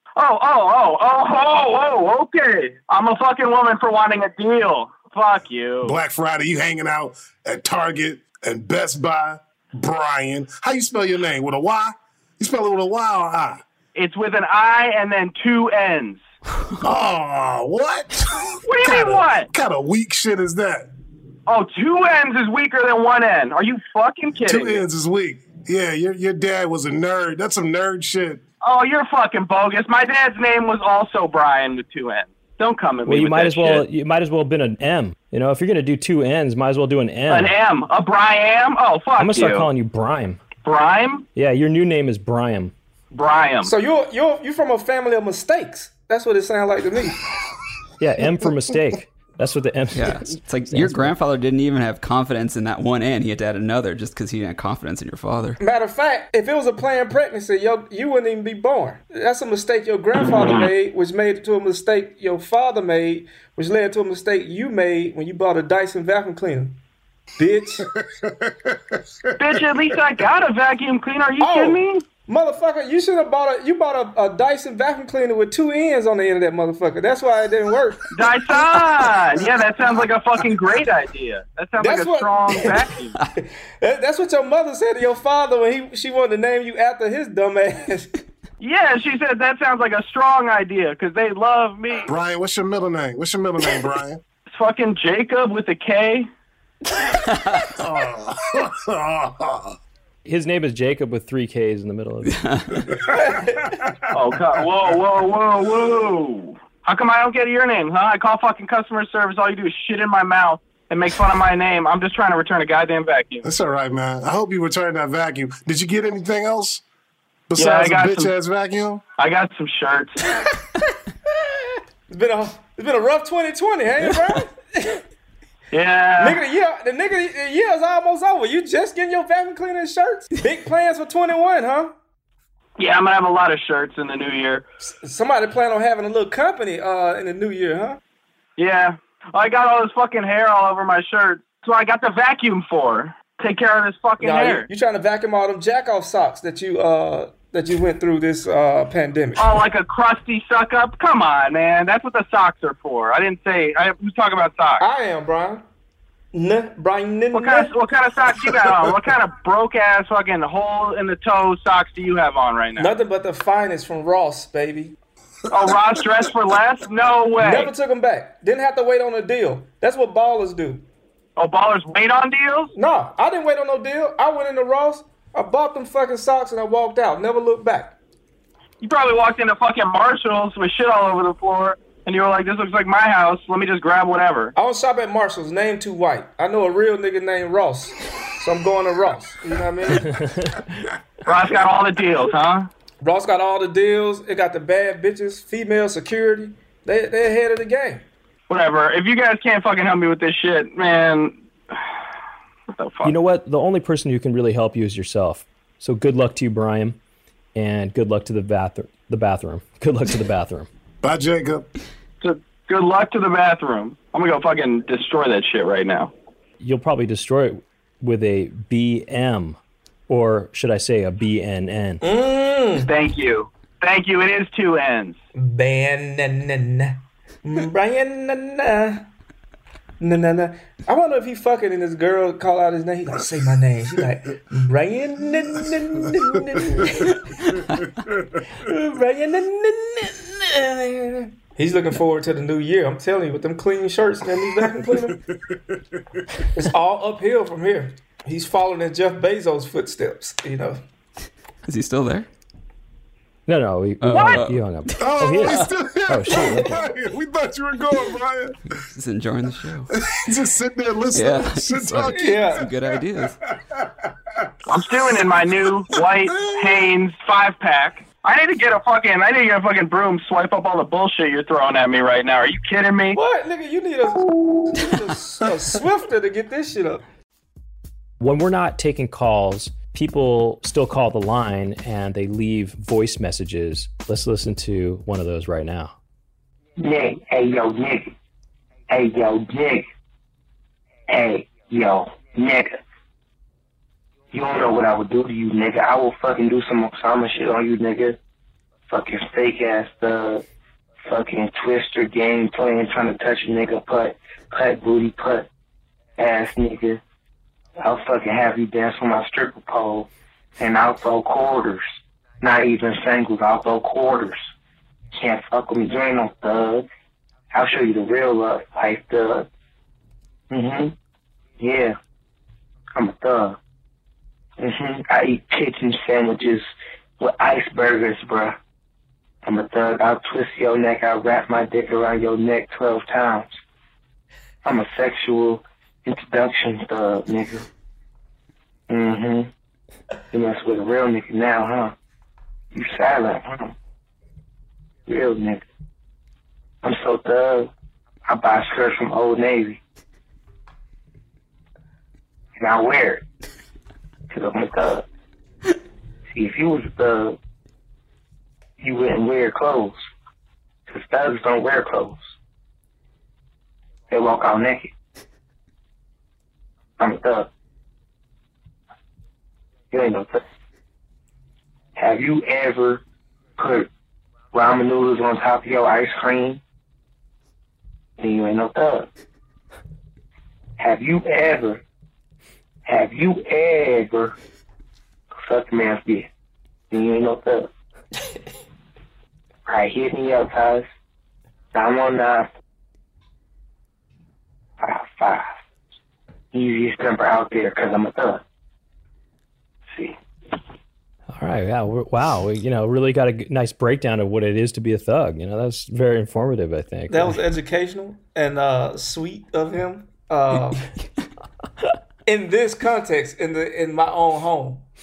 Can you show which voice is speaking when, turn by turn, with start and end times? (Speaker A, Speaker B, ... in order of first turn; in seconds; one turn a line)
Speaker A: 0.2-6.0
Speaker B: 5.8-13.6
Speaker A: 13.9-16.2
Speaker B: 16.8-20.9
Speaker A: 18.6-19.5
Speaker A: 21.5-24.8
Speaker B: 24.4-28.4
Speaker A: 28.6-33.9
Speaker C: 33.0-37.5
Speaker A: 37.3-39.7
Speaker C: 39.2-40.4
Speaker A: 40.6-41.3
Speaker C: 41.4-42.7
Speaker A: 43.1-43.7
Speaker D: 43.6-47.2
Speaker C: 48.0-51.2
Speaker E: 49.9-55.6
Speaker D: 55.6-66.8
Speaker D: 67.4-67.9
Speaker B: 68.0-70.0
Speaker A: 69.4-72.0
Speaker D: 71.4-78.1
Speaker A: 78.1-83.1
Speaker D: 81.8-82.8
Speaker D: 83.8-88.1
Speaker A: 88.6-92.1
Speaker B: 92.1-94.2
Speaker A: 94.5-96.3
Speaker B: 97.8-99.8
Speaker C: 100.2-102.4
Speaker E: 102.3-102.9
Speaker D: 103.1-103.8
Speaker A: 104.1-113.5
Speaker B: 113.4-116.8
Speaker B: 117.5-119.0
Speaker A: 117.6-118.3
Speaker A: 119.2-120.2
Speaker D: 122.1-125.0
Speaker A: 125.7-126.4
Speaker D: 126.2-131.9
Speaker A: 132.8-134.6
Speaker D: 135.0-138.0
Speaker A: 138.6-144.7
Speaker D: 144.2-149.5
Speaker A: 149.4-154.8
Speaker D: 154.8-155.6
Speaker D: 156.3-157.7
Speaker A: 157.3-162.9
Speaker D: 162.8-164.9
Speaker A: 165.5-167.7
Speaker D: 167.4-170.8
Speaker A: 171.4-172.7
Speaker D: 172.7-178.0
Speaker A: 178.8-184.5
Speaker D: 184.6-190.1
Speaker C: 190.0-190.9
Speaker A: 191.3-192.7
Speaker D: 193.0-198.0
Speaker A: 198.5-201.8
Speaker A: 202.8-203.2
Speaker C: 203.0-207.0
Speaker C: 207.6-210.7
Speaker B: 211.0-211.7
Speaker A: 212.2-216.1
Speaker C: 216.6-222.0
Speaker D: 222.0-222.9
Speaker A: 222.8-225.2
Speaker D: 225.3-229.1
Speaker D: 230.0-237.2
Speaker B: 237.8-238.1
Speaker D: 238.6-245.2
Speaker B: 245.5-245.8
Speaker D: 246.5-250.8
Speaker E: 251.7-252.3
Speaker C: 253.5-256.9
Speaker E: 254.0-255.5
Speaker B: 255.0-258.7
Speaker E: 258.9-259.9
Speaker B: 259.9-263.9
Speaker E: 261.1-263.4
Speaker D: 262.1-262.7
Speaker A: 264.7-273.2
Speaker B: 264.7-266.9
Speaker D: 273.1-277.0
Speaker C: 278.2-285.9
Speaker F: 286.8-288.1
Speaker F: 288.9-289.9
Speaker F: 291.1-292.8
Speaker F: 294.3-298.2
Speaker F: 298.9-300.4
Speaker F: 301.1-305.5
Speaker F: 306.2-307.0
Speaker F: 307.8-311.9
Speaker F: 312.4-314.5
Speaker F: 315.1-316.9
Speaker F: 317.5-319.5
Speaker F: 320.5-320.9
Speaker F: 321.6-322.0
Speaker F: 322.9-323.6
Speaker F: 324.6-326.6
Speaker F: 327.2-328.6
Speaker F: 329.4-333.6
Speaker F: 334.6-337.7
Speaker F: 338.9-339.5
Speaker F: 340.3-341.9
Speaker F: 342.7-343.7
Speaker F: 345.1-345.6
Speaker F: 346.8-347.7
Speaker F: 348.3-349.8
Speaker F: 352.6-353.2
Speaker F: 354.3-355.1
Speaker F: 356.3-357.4
Speaker F: 358.8-360.0
Speaker F: 360.9-362.2
Speaker F: 364.1-364.9
Speaker F: 367.0-367.5
Speaker F: 369.9-370.4
Speaker F: 372.0-373.0
Speaker F: 373.6-373.9
Speaker F: 374.5-376.6
Speaker F: 378.2-379.1
Speaker F: 380.8-381.8
Speaker F: 382.9-384.4
Speaker F: 385.3-386.3
Speaker F: 386.9-387.7
Speaker F: 389.7-390.9
Speaker F: 391.7-392.5
Speaker F: 394.8-395.5
Speaker F: 396.5-398.4
Speaker C: 401.3-407.4
Speaker D: 407.1-410.9
Speaker D: 412.3-414.8